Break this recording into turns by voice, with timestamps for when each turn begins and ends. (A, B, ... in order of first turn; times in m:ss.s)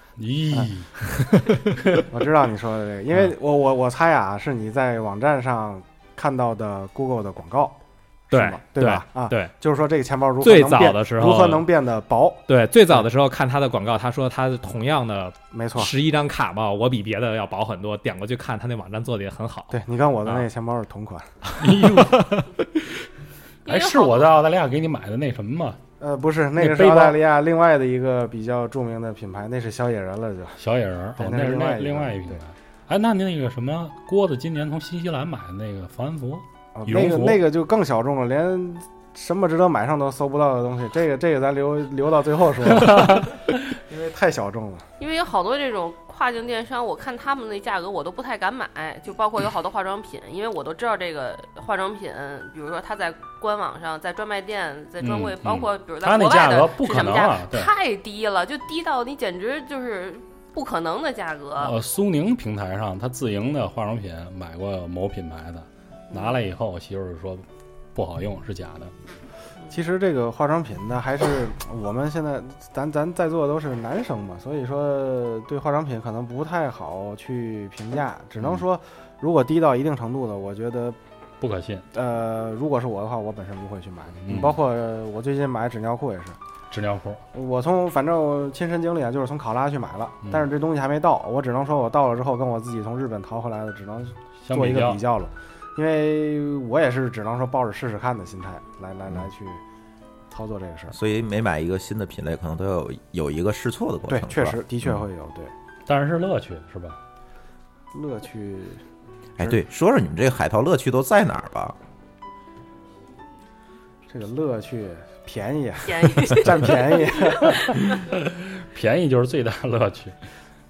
0:00.2-0:01.0 A
0:01.0-0:02.0 B
0:02.1-0:07.8 C
0:08.3-0:13.0 C
0:08.3-0:09.5 B
0:10.4-0:11.7 B
0:12.5-0:20.4 B
0:15.5-0:15.9 C
0:19.7-0:21.3 C
0:21.5-0:22.5 B
0:21.6-0:22.4 A
0:23.6-0:24.4 D
0:23.7-0:25.8 A
0:26.0-0:30.6 C
0:26.6-0:27.2 A
0:30.6-0:37.4 A
0:31.2-0:32.4 C
0:36.8-0:44.9 C
0:42.6-0:43.6 A
0:45.0-1:01.8 D
0:55.0-0:57.7 A
1:01.6-1:08.9 A
1:06.1-1:06.4 D
1:09.7-1:21.0 C
1:21.4-1:21.8 A
1:21.9-1:26.4 C
1:24.3-1:24.6 A
1:26.7-1:27.2 A
1:27.3-1:39.6 C
1:34.4-1:35.0 A
1:40.3-1:41.0 C
1:40.9-1:45.0 E
1:44.1-1:45.5 C
1:45.9-1:47.0 A
1:47.9-1:48.8 C
1:49.4-1:51.8 E
1:54.1-1:57.8 C
1:55.9-1:57.8 D
1:58.1-2:00.2 A